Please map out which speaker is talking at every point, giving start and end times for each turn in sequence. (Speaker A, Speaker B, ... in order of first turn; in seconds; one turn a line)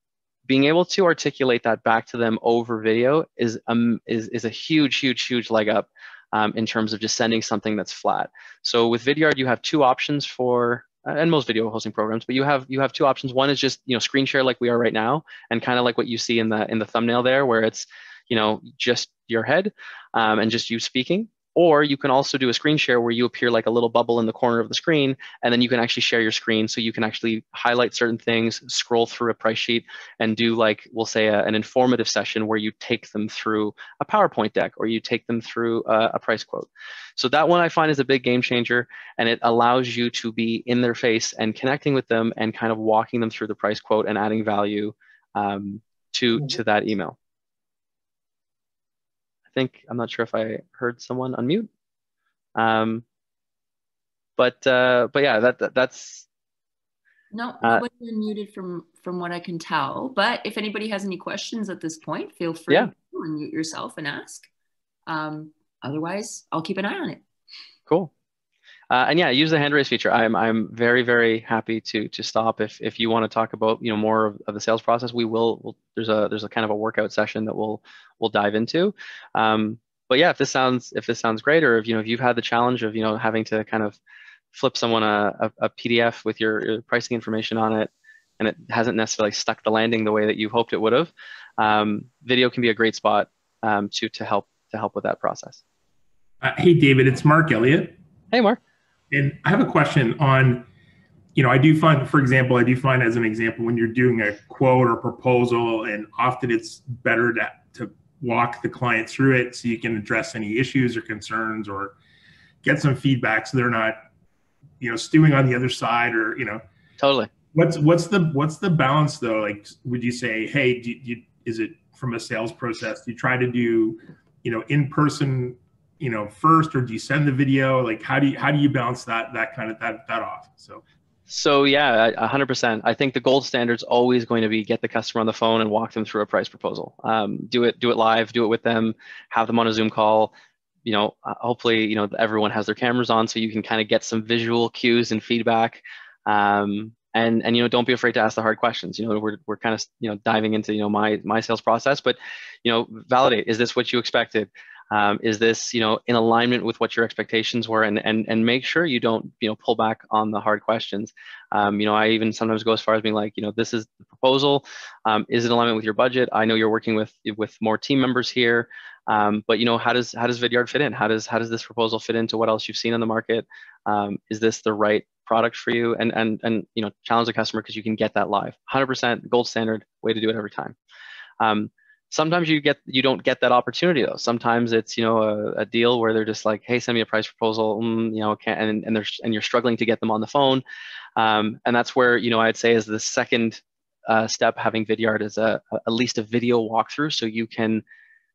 Speaker A: 0.5-47.1
Speaker A: 49.5-51.7
Speaker A: 52.6-53.0
Speaker A: 54.4-56.2
Speaker B: 57.3-64.5
Speaker B: 65.1-67.2
Speaker A: 68.9-84.0
Speaker A: 84.5-95.6
Speaker C: 96.4-98.0
Speaker A: 98.3-98.6
Speaker C: 99.1-100.7
Speaker C: 101.3-111.9
Speaker C: 112.6-114.0
Speaker C: 114.8-116.6
Speaker A: 117.0-117.3
Speaker C: 117.5-130.8
Speaker A: 131.3-140.3
Speaker A: 140.8-180.8
Speaker A: 181.4-190.6
Speaker A: 191.2-197.8